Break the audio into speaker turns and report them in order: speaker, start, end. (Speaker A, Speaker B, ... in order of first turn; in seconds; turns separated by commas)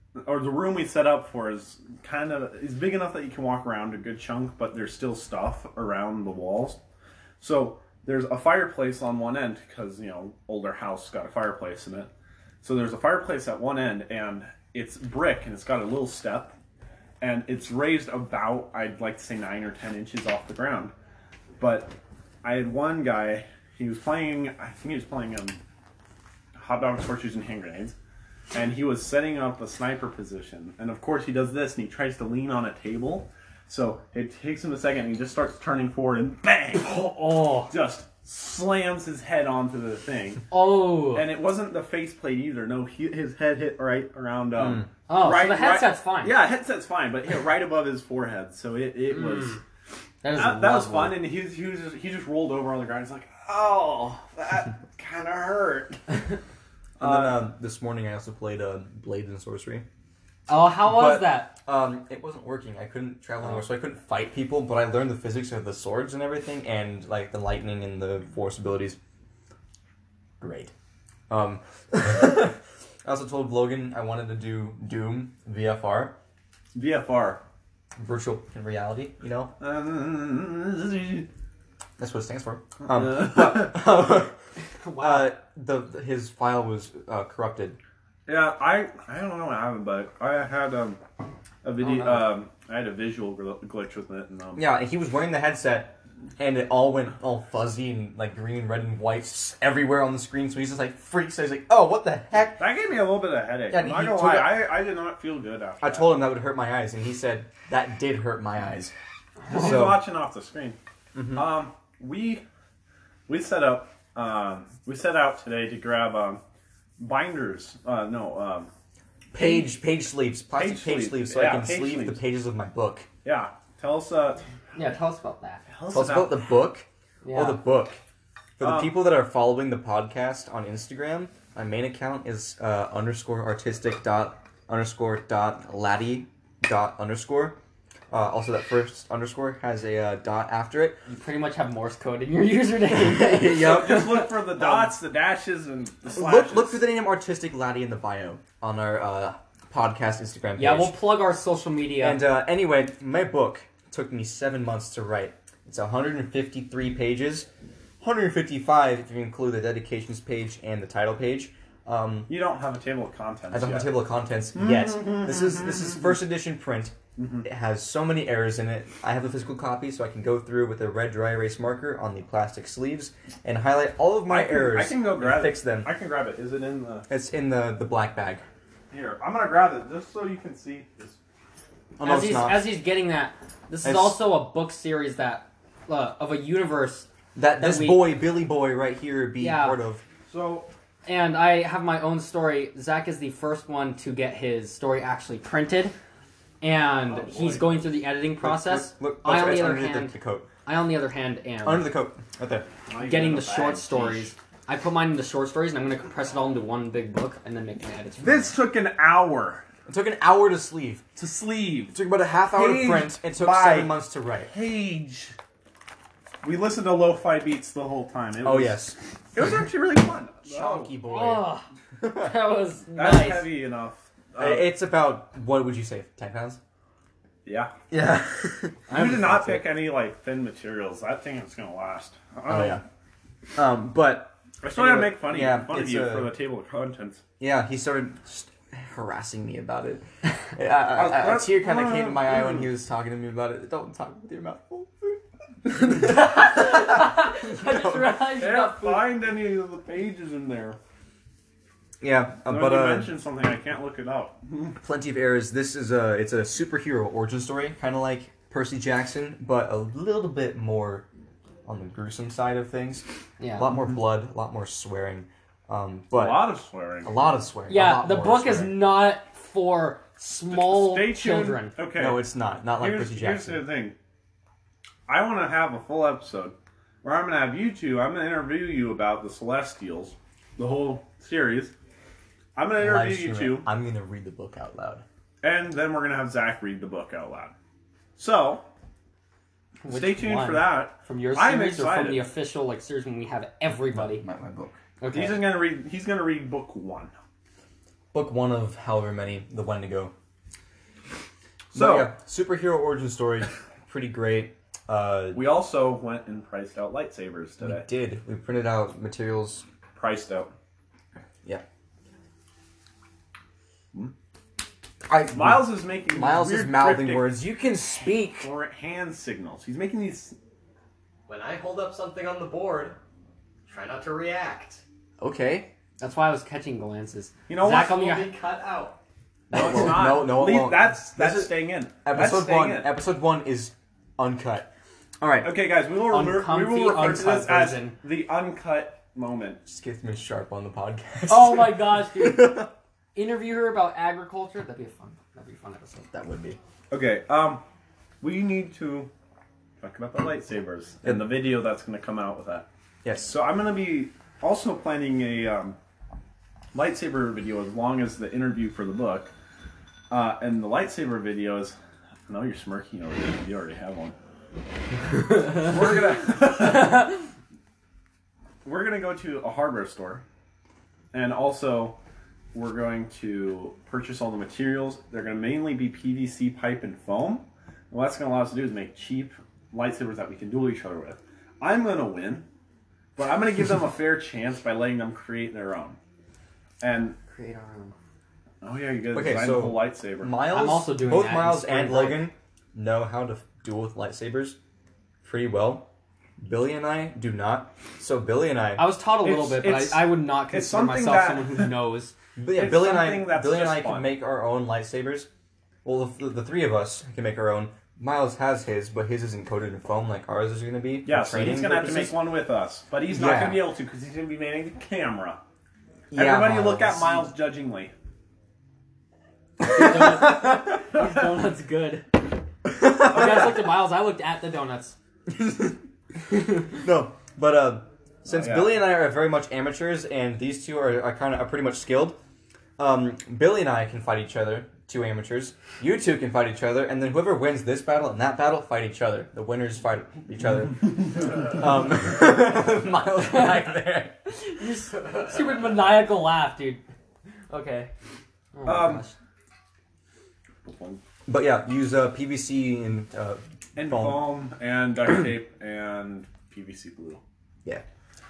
Speaker A: 0.2-6.8, Speaker A: 7.4-12.1, Speaker A: 12.6-16.5, Speaker A: 17.2-20.9, Speaker A: 21.6-25.6, Speaker A: 26.6-27.9, Speaker A: 28.5-40.5, Speaker B: 36.8-37.7, Speaker B: 40.5-41.3, Speaker A: 41.1-49.6, Speaker C: 44.6-44.9, Speaker B: 45.1-46.3, Speaker B: 49.1-49.6, Speaker B: 50.2-51.2, Speaker A: 50.3-56.0, Speaker A: 57.0-57.4, Speaker C: 57.0-59.8, Speaker B: 60.5-61.5, Speaker C: 60.7-69.0, Speaker A: 70.4-70.7, Speaker C: 71.3-76.2, Speaker A: 76.7-77.4, Speaker C: 78.0-79.5, Speaker A: 79.6-81.3, Speaker C: 82.0-84.3, Speaker A: 82.8-83.9, Speaker B: 84.8-85.3, Speaker C: 85.0-87.8, Speaker A: 88.3-91.0, Speaker A: 91.6-94.7, Speaker B: 91.8-92.3, Speaker C: 94.5-102.6, Speaker A: 102.6-106.2, Speaker C: 103.7-104.6, Speaker C: 105.8-108.9, Speaker A: 109.5-110.8, Speaker C: 109.5-110.0, Speaker C: 111.1-111.5, Speaker A: 111.3-112.4, Speaker A: 113.3-116.4, Speaker A: 117.0-118.7, Speaker C: 119.3-123.1, Speaker A: 119.4-119.6, Speaker A: 120.5-122.2, Speaker A: 123.2-124.4, Speaker B: 124.7-125.6, Speaker A: 125.7-126.5, Speaker C: 125.9-128.0, Speaker B: 127.2-127.6, Speaker C: 128.6-137.6, Speaker A: 128.6-128.9, Speaker C: 138.1-141.0, Speaker B: 141.1-144.3, Speaker C: 142.9-144.9, Speaker A: 143.5-146.8, Speaker C: 146.2-151.0, Speaker B: 150.6-152.2, Speaker C: 152.0-157.5, Speaker C: 158.0-162.3, Speaker A: 162.3-163.9, Speaker C: 163.5-175.9, Speaker A: 164.5-166.2, Speaker A: 167.2-167.4, Speaker A: 174.3-177.1, Speaker C: 177.1-178.4, Speaker A: 178.9-181.2, Speaker C: 182.0-182.8, Speaker B: 182.0-188.1, Speaker C: 183.8-184.2, Speaker C: 187.3-190.0, Speaker B: 189.4-189.8, Speaker A: 190.2-190.7, Speaker B: 191.1-195.9, Speaker B: 196.6-200.1, Speaker A: 197.1-197.8, Speaker C: 198.4-200.5, Speaker B: 200.7-201.9, Speaker C: 201.6-202.7, Speaker D: 202.9-204.3, Speaker B: 203.0-208.5, Speaker A: 208.2-209.6, Speaker C: 209.9-211.0, Speaker A: 211.2-212.0, Speaker C: 211.9-214.5, Speaker A: 212.5-215.3, Speaker A: 216.4-220.9, Speaker C: 218.4-219.0, Speaker C: 220.4-222.3, Speaker B: 221.0-223.5, Speaker A: 222.9-224.7, Speaker C: 224.4-226.6, Speaker A: 227.4-227.7, Speaker C: 227.9-228.8, Speaker B: 228.9-229.6, Speaker A: 228.9-232.8, Speaker C: 232.5-232.8, Speaker C: 233.5-236.3, Speaker A: 234.6-237.2, Speaker C: 237.4-245.2, Speaker A: 240.9-242.7, Speaker C: 245.8-248.1, Speaker B: 245.9-249.0, Speaker A: 248.3-250.8, Speaker C: 252.0-253.1, Speaker A: 252.4-254.7, Speaker C: 254.8-261.1, Speaker C: 261.6-263.0, Speaker B: 263.4-263.7, Speaker C: 263.6-266.5, Speaker A: 266.1-267.1, Speaker C: 267.0-268.9, Speaker B: 267.7-271.7, Speaker A: 270.5-273.9, Speaker C: 271.9-273.6, Speaker A: 275.1-281.7, Speaker A: 282.6-283.7, Speaker C: 282.8-285.0, Speaker A: 285.4-287.5, Speaker A: 288.2-288.6, Speaker B: 289.8-294.2, Speaker A: 289.9-292.2, Speaker C: 293.9-294.8, Speaker B: 295.0-295.4, Speaker A: 295.1-297.1, Speaker C: 298.1-300.1, Speaker A: 301.7-302.1, Speaker C: 301.7-305.4, Speaker A: 305.3-307.9, Speaker C: 307.6-309.6, Speaker A: 309.9-310.5, Speaker C: 315.1-318.5, Speaker A: 315.3-317.4, Speaker A: 318.4-320.3, Speaker D: 321.2-323.0, Speaker D: 323.6-324.8, Speaker C: 325.2-325.7, Speaker B: 326.0-328.3, Speaker A: 327.5-327.9, Speaker D: 327.7-329.0, Speaker C: 329.5-334.7, Speaker A: 329.5-332.9, Speaker C: 335.2-335.5, Speaker A: 335.4-339.6, Speaker B: 336.1-337.9, Speaker C: 339.6-342.7, Speaker B: 341.3-346.2, Speaker C: 346.1-346.6, Speaker A: 346.9-347.6, Speaker A: 348.2-349.1, Speaker A: 349.8-352.7, Speaker C: 351.0-351.3, Speaker C: 353.0-353.3, Speaker A: 353.2-355.8, Speaker A: 356.7-359.3, Speaker A: 360.1-361.7, Speaker A: 362.3-364.1, Speaker B: 365.3-365.7, Speaker A: 365.5-367.1, Speaker B: 366.6-367.2, Speaker A: 368.6-370.2, Speaker A: 371.1-372.0, Speaker A: 372.5-382.4, Speaker A: 383.1-386.0, Speaker A: 386.8-387.2, Speaker B: 387.3-387.9, Speaker A: 388.6-390.3, Speaker C: 389.1-394.6, Speaker B: 390.5-392.3, Speaker C: 395.2-395.9, Speaker C: 396.4-398.9, Speaker B: 398.8-402.1, Speaker A: 399.2-401.8, Speaker C: 402.4-405.3, Speaker A: 402.6-404.1, Speaker C: 405.8-412.2, Speaker A: 411.0-415.4, Speaker C: 413.1-413.7, Speaker C: 416.1-417.3, Speaker A: 416.1-417.9, Speaker B: 419.6-422.1, Speaker C: 419.6-420.5, Speaker C: 422.7-423.4, Speaker B: 422.8-424.9, Speaker C: 425.3-425.8, Speaker C: 426.7-432.2, Speaker A: 428.3-428.8, Speaker C: 432.8-444.1, Speaker B: 443.2-443.7, Speaker B: 444.3-446.8, Speaker B: 447.5-447.9, Speaker B: 448.5-449.1, Speaker A: 448.6-449.1, Speaker A: 450.6-451.0, Speaker C: 451.3-454.3, Speaker A: 453.8-457.2